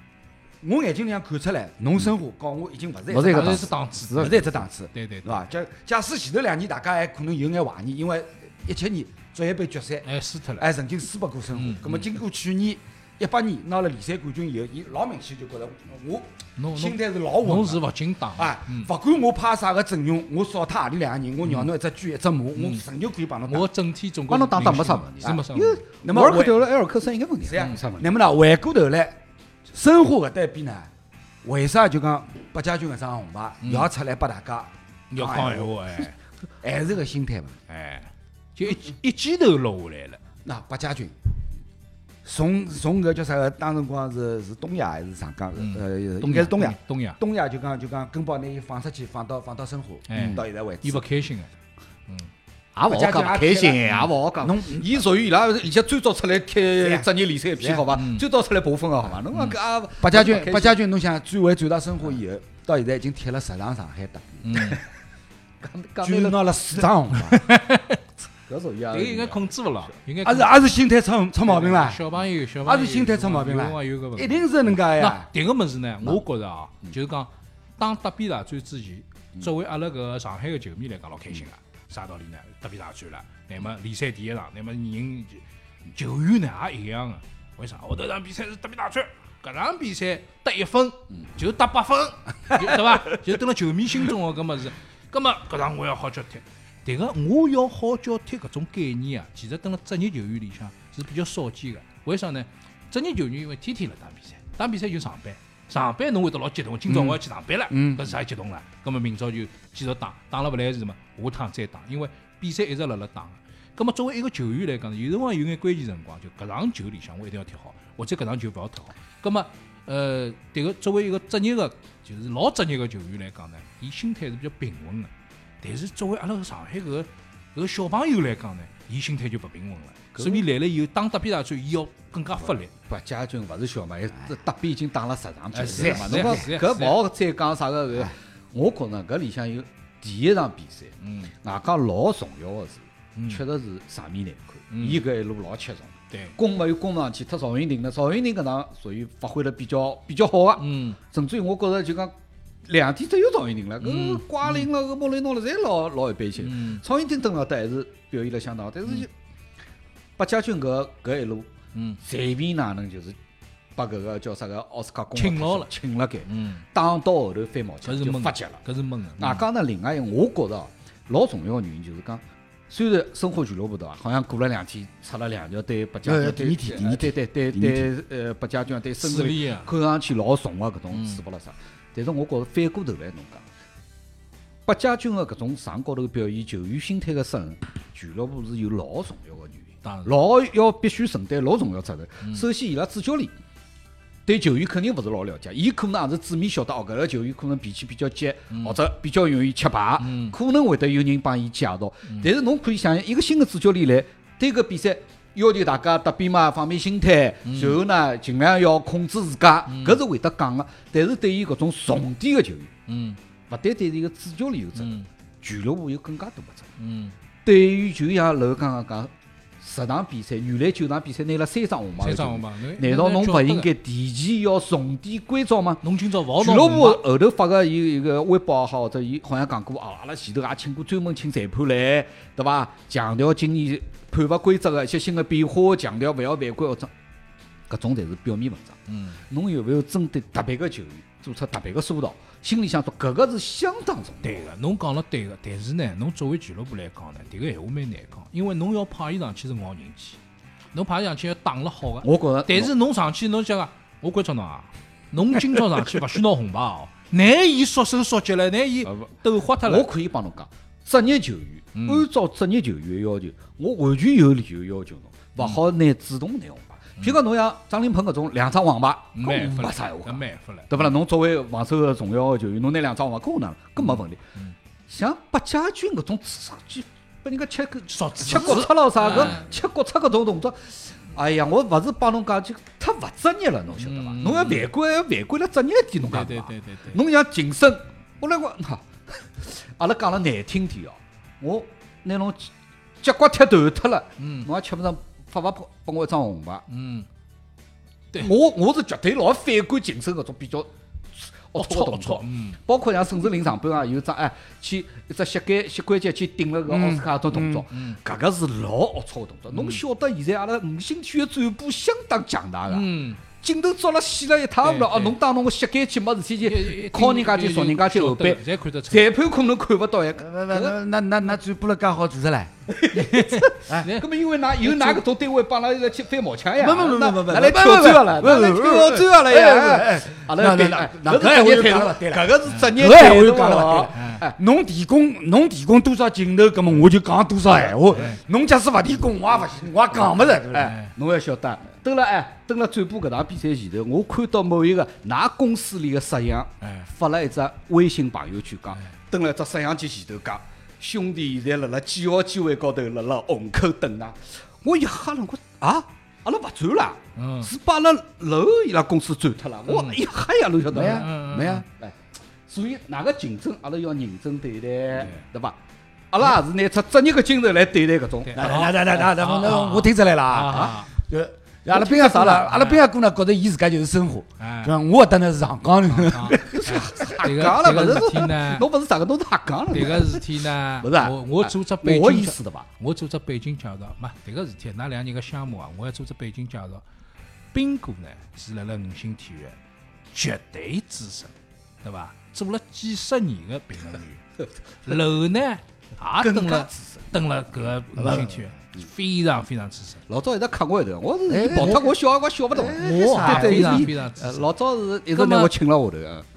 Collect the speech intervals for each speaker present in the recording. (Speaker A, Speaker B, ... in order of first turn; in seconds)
Speaker A: 0.6-17.8, 18.4-23.7, 26.0-26.6, 27.4-29.2, 29.7-30.9, 31.4-35.9, 36.6-37.6, 40.4-41.3, 42.2-51.0, 52.9-55.0, 56.7-57.9, 60.0-64.8, 66.0-67.5, 70.2-72.0, 72.6-75.3, 106.9-108.1, 135.7-136.4, 176.0-177.9, 306.7-307.6, 320.2-322.5, 326.6-340.8, 360.7-361.8, 368.4-376.8, 401.3-401.9, 402.5-403.9
Speaker B: 3.1-4.5, 24.3-28.1, 50.1-50.5, 52.8-60.8, 65.6-66.4, 68.5-69.4, 130.2-130.4, 132.7-152.1, 152.7-159.1, 160.2-161.5, 162.0-163.2, 163.8-168.6, 169.2-183.5, 184.7-193.3, 194.3-212.7, 213.5-216.7, 217.4-225.8, 226.4-236.9, 237.7-244.5, 252.0-252.7, 258.9-274.2, 274.9-296.6, 298.2-320.8, 322.7-334.4, 340.8-361.1, 362.5-365.6, 366.1-368.6, 371.7-372.5, 376.3-380.3, 380.8-382.7, 396.2-397.1, 400.1-406.2
Speaker C: 3.2-5.5, 10.1-10.7, 11.6-12.1, 16.6-18.9, 21.4-21.7, 22.6-22.8, 23.5-25.8, 33.6-33.9, 35.1-36.2, 37.7-40.2, 45.6-47.2, 50.1-51.5, 57.9-58.2, 59.3-59.6, 64.5-64.8, 67.1-68.0, 68.9-70.6, 71.5-85.4, 85.9-125.1, 125.6-132.7, 135.5-137.0, 141.0-141.3, 143.2-143.4, 144.7-145.0, 146.1-146.4, 150.6-151.0, 153.8-154.7, 156.4-156.8, 161.8-162.0, 165.2-165.7, 166.3-166.7, 167.8-169.4, 179.0-179.7, 180.9-181.2, 189.8-190.1, 198.5-198.8, 200.0-200.3, 207.4-207.8, 209.7-210.0, 212.9-213.2, 214.8-215.1, 216.8-217.2, 222.0-223.7, 225.8-227.0, 238.9-239.2, 244.2-250.2, 250.7-259.9, 261.8-262.1, 269.1-270.9, 273.8-274.6, 277.9-279.5, 283.8-284.7, 286.1-287.0, 294.2-294.5, 296.7-297.1, 301.6-302.6, 307.7-308.0, 309.5-309.8, 312.7-313.2, 314.6-315.2, 316.4-319.1, 322.9-324.1, 324.6-325.0, 332.5-333.2, 333.9-334.2, 340.6-340.9, 346.6-346.9, 357.2-357.5, 359.7-360.0, 360.7-361.6, 368.3-370.9, 372.3-372.8, 374.4-374.7, 375.9-378.7, 379.7-386.8, 387.5-389.6, 390.1-391.3, 391.8-394.2, 394.9-400.0, 401.5-401.8, 402.7-404.5, 405.1-405.5